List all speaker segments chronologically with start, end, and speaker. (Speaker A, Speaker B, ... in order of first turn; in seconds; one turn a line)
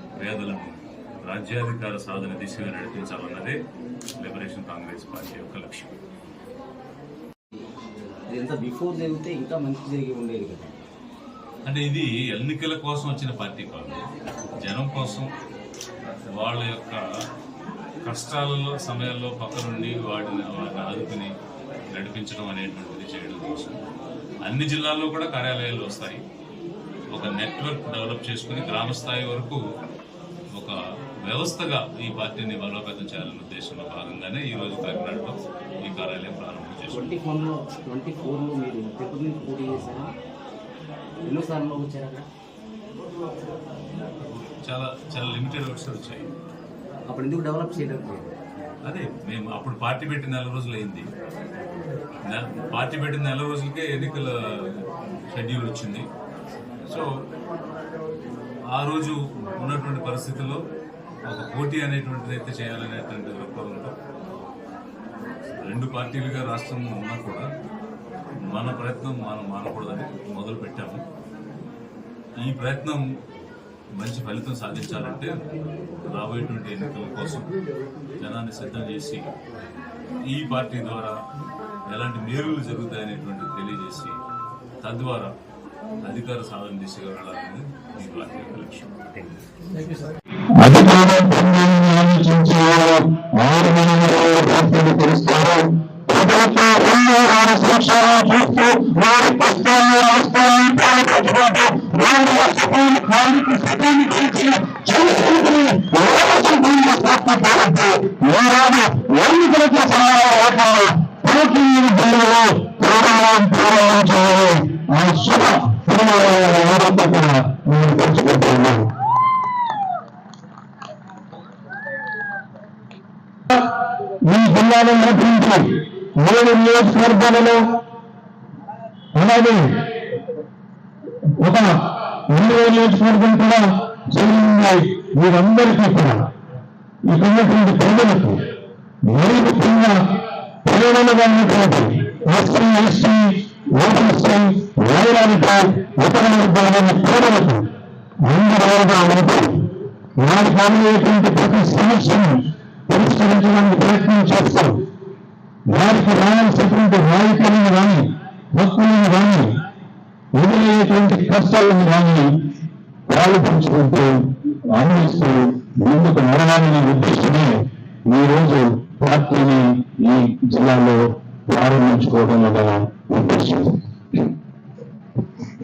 Speaker A: 0.2-3.6
Speaker A: 4.2-5.9
Speaker B: 8.3-10.7
Speaker A: 11.6-14.1
Speaker A: 14.6-15.3
Speaker A: 16.3-17.0
Speaker A: 18.0-21.3
Speaker A: 21.9-23.8
Speaker A: 24.4-26.2
Speaker A: 27.1-29.6
Speaker A: 30.6-37.1
Speaker B: 36.9-40.1
Speaker B: 41.2-42.3
Speaker A: 44.2-46.3
Speaker B: 47.1-48.3
Speaker A: 48.8-51.1
Speaker A: 52.3-56.0
Speaker A: 58.7-60.6
Speaker A: 61.3-64.0
Speaker A: 65.6-67.5
Speaker A: 68.5-71.0
Speaker A: 72.4-73.0
Speaker A: 74.0-75.4
Speaker A: 76.0-77.5
Speaker A: 78.2-79.3
Speaker A: 80.3-81.2
Speaker A: 81.9-84.2
Speaker A: 84.8-85.3
Speaker A: 86.0-89.2
Speaker C: 90.5-119.0
Speaker C: 123.5-127.8
Speaker C: 129.1-130.0
Speaker C: 131.3-136.3
Speaker C: 137.0-154.9
Speaker C: 155.7-159.7
Speaker C: 160.3-162.5
Speaker C: 163.1-173.8